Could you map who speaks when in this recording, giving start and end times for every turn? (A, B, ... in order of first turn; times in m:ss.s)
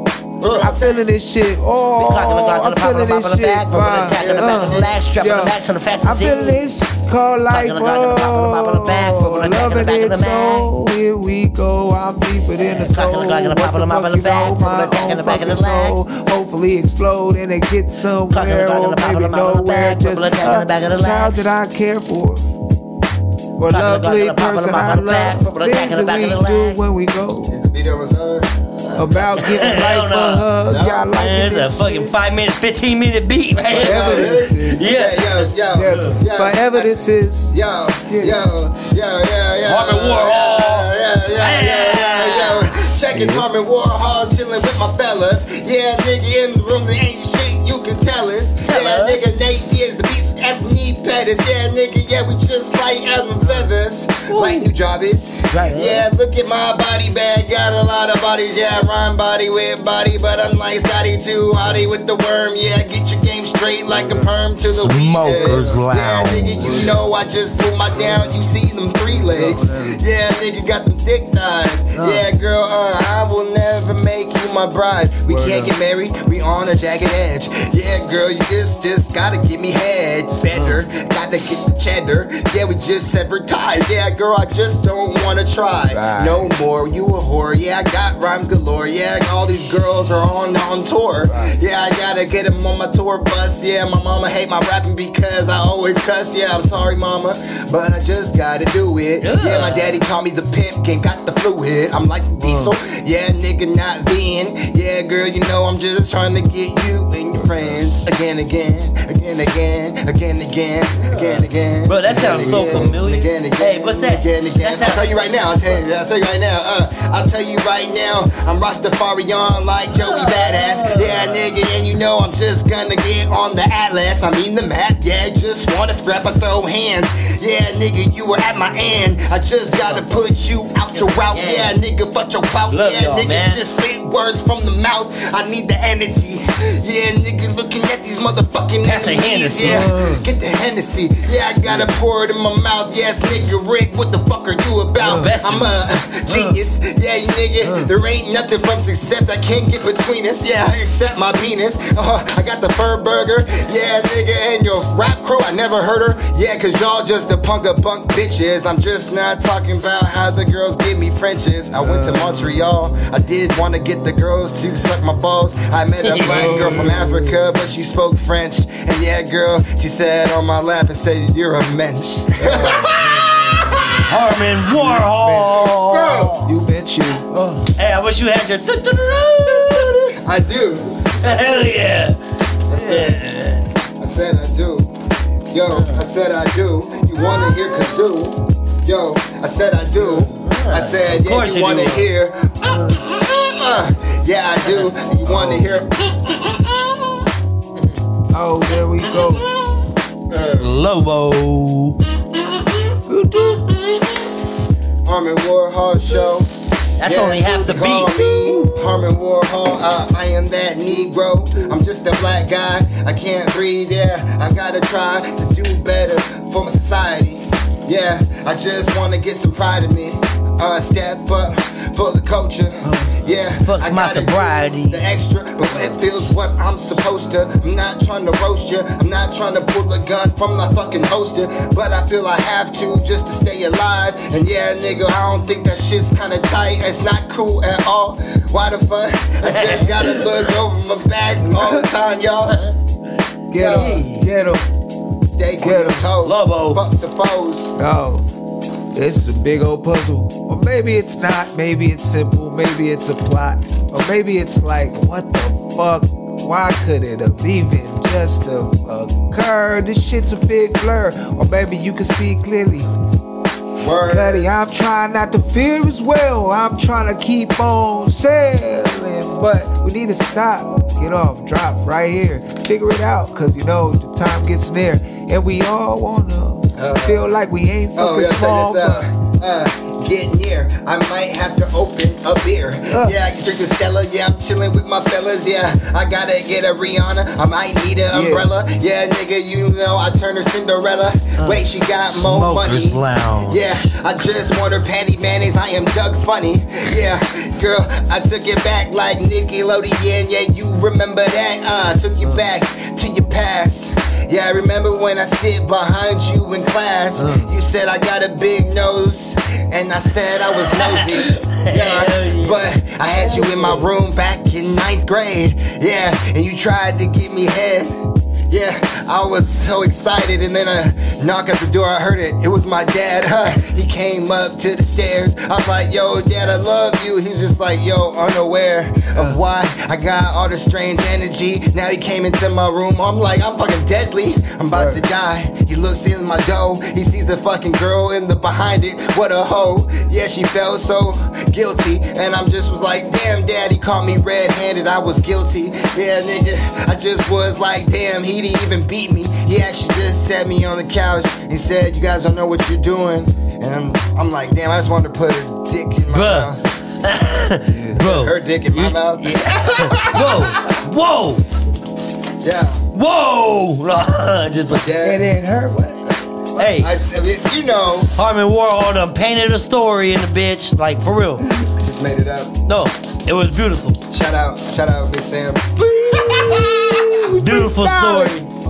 0:00.4-0:01.0 A
0:00.6-0:00.8 B
0:00.6-0:22.5 C
0:02.0-0:06.6 B
0:04.1-0:05.0 A
0:07.5-0:10.7 B
0:12.6-0:15.9 B
0:18.3-0:21.5 B
0:23.6-0:27.5 C
0:23.7-0:26.8 B
0:27.5-0:28.5 A
0:28.8-0:30.6 B
0:28.9-0:32.1 C
0:30.7-0:31.1 A
0:31.1-0:36.2 B
0:33.7-2:53.0 A
0:33.8-0:34.9 C
0:35.7-0:37.6 C
0:38.1-0:38.4 C
0:39.6-0:42.7 B
0:43.1-0:43.4 C
0:48.7-0:49.2 B
0:53.4-0:53.7 C
0:54.3-0:54.6 B
0:55.5-0:56.0 B
1:03.9-1:04.3 C
1:04.6-1:06.9 B
1:05.3-1:05.8 C
1:06.6-1:07.0 C
1:07.9-1:08.4 C
1:09.2-1:10.0 C
1:11.9-1:12.2 C
1:15.3-1:15.7 C
1:20.5-1:20.8 C
1:25.9-1:26.5 C
1:31.2-1:31.5 C
1:39.2-1:40.0 B
1:42.4-1:42.8 C
1:51.0-1:55.2 B
1:52.1-1:52.9 C
1:59.9-2:01.5 B
2:10.9-2:11.7 B
2:12.7-2:13.6 B
2:18.8-2:19.9 B
2:19.6-2:20.2 C
2:25.0-2:25.3 C
2:25.0-2:25.7 B
2:26.3-2:26.6 C
2:27.6-2:27.9 C
2:41.8-2:42.5 C
2:46.0-2:46.9 B
2:46.2-2:47.5 C
2:52.4-2:54.1 C
2:52.6-2:56.5 B
2:54.6-2:57.7 C
2:57.8-3:00.1 B
2:59.6-3:01.6 A
3:01.2-3:02.2 B
3:02.7-3:03.2 A
3:02.7-3:03.7 B
3:04.0-3:04.9 A
3:05.5-3:17.1 A
3:05.7-3:06.0 B
3:10.0-3:12.1 B
3:12.7-3:13.0 C
3:15.2-3:15.7 C
3:18.3-3:19.5 C
3:20.3-3:20.7 A
3:20.6-3:22.0 B
3:23.1-3:23.7 C
3:25.0-3:26.5 A
3:27.0-3:28.2 B
3:27.0-4:02.6 A
3:28.5-3:28.7 C
3:42.8-3:43.4 C
3:43.6-3:45.0 B
3:59.4-4:00.5 B
4:01.4-4:01.8 C
4:02.5-4:02.8 B
4:03.5-4:04.7 C
4:03.5-4:04.0 A
4:03.6-4:04.3 B
4:05.3-4:07.7 A
4:05.6-4:06.1 C
4:06.2-4:06.8 B
4:07.8-4:08.2 C
4:08.9-4:22.9 C
4:23.8-4:24.5 A
4:24.1-4:39.1 C
4:36.8-4:37.3 A
4:37.9-5:56.7 A
4:42.9-4:43.1 C
4:48.1-4:48.5 C
4:52.1-4:53.6 B
5:07.2-5:07.5 C
5:10.6-5:12.7 B
5:13.2-5:13.9 C
5:34.7-5:35.0 C
5:56.1-6:01.4 B
5:57.6-5:58.0 C
5:58.0-6:00.8 A
6:02.4-6:02.8 A
6:02.9-6:04.9 B
6:04.7-6:05.3 A
6:05.0-6:06.7 C
6:06.5-6:06.9 B
6:06.8-6:08.1 A
6:08.1-6:11.5 B
6:11.6-6:12.6 A
6:12.7-6:14.0 B
6:14.1-6:17.2 A
6:16.1-6:18.4 C
6:17.4-6:18.5 B